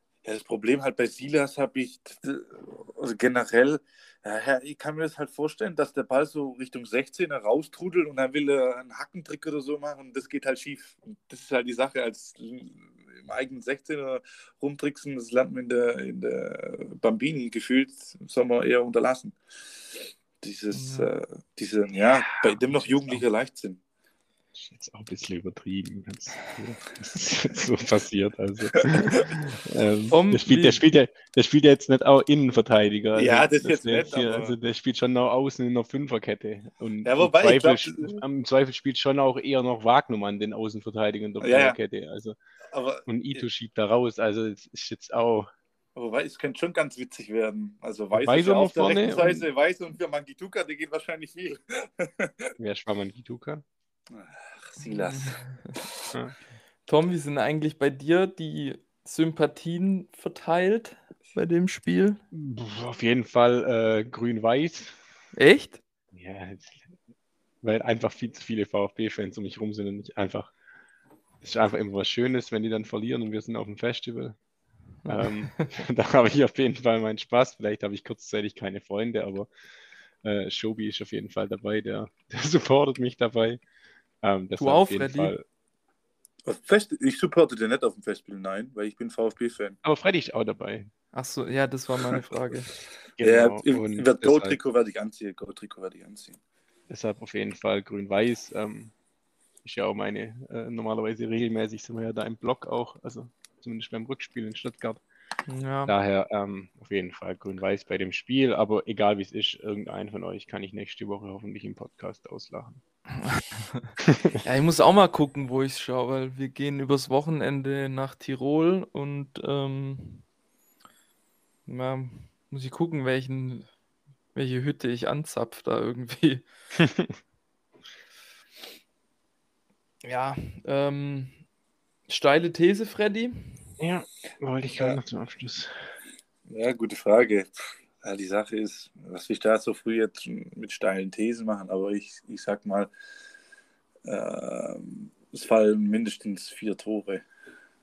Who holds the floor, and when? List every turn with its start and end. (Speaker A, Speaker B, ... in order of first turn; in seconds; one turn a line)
Speaker A: 0.2-23.8
Speaker B: 20.7-21.1
Speaker C: 22.9-23.2
Speaker C: 24.5-42.4
Speaker B: 30.1-30.8
Speaker A: 33.1-34.6
Speaker A: 37.0-38.2
Speaker A: 41.4-41.8
Speaker A: 42.7-43.4
Speaker C: 43.1-45.5
Speaker A: 46.0-52.5
Speaker C: 48.1-49.5
Speaker C: 52.6-53.6
Speaker A: 54.1-56.0
Speaker B: 54.8-55.7
Speaker C: 56.1-56.4
Speaker B: 56.9-62.2
Speaker C: 62.3-65.0
Speaker B: 65.3-65.8
Speaker C: 66.1-66.9
Speaker C: 67.6-70.5
Speaker C: 71.4-74.4
Speaker B: 75.0-75.7
Speaker C: 75.1-79.5
Speaker C: 80.2-83.6
Speaker C: 84.2-85.4
Speaker B: 84.6-85.3
Speaker A: 86.5-89.8
Speaker C: 89.8-90.9
Speaker B: 91.1-92.7
Speaker C: 93.2-94.6
Speaker A: 93.2-96.4
Speaker C: 96.9-98.9
Speaker C: 99.6-105.0
Speaker B: 105.5-105.9
Speaker C: 105.9-112.8
Speaker B: 113.2-113.9
Speaker B: 114.4-120.2
Speaker B: 121.7-123.7
Speaker B: 124.3-126.5
Speaker C: 126.8-127.1
Speaker B: 130.0-131.4
Speaker B: 132.1-133.6
Speaker C: 133.8-135.7
Speaker A: 136.5-142.9
Speaker A: 144.0-147.2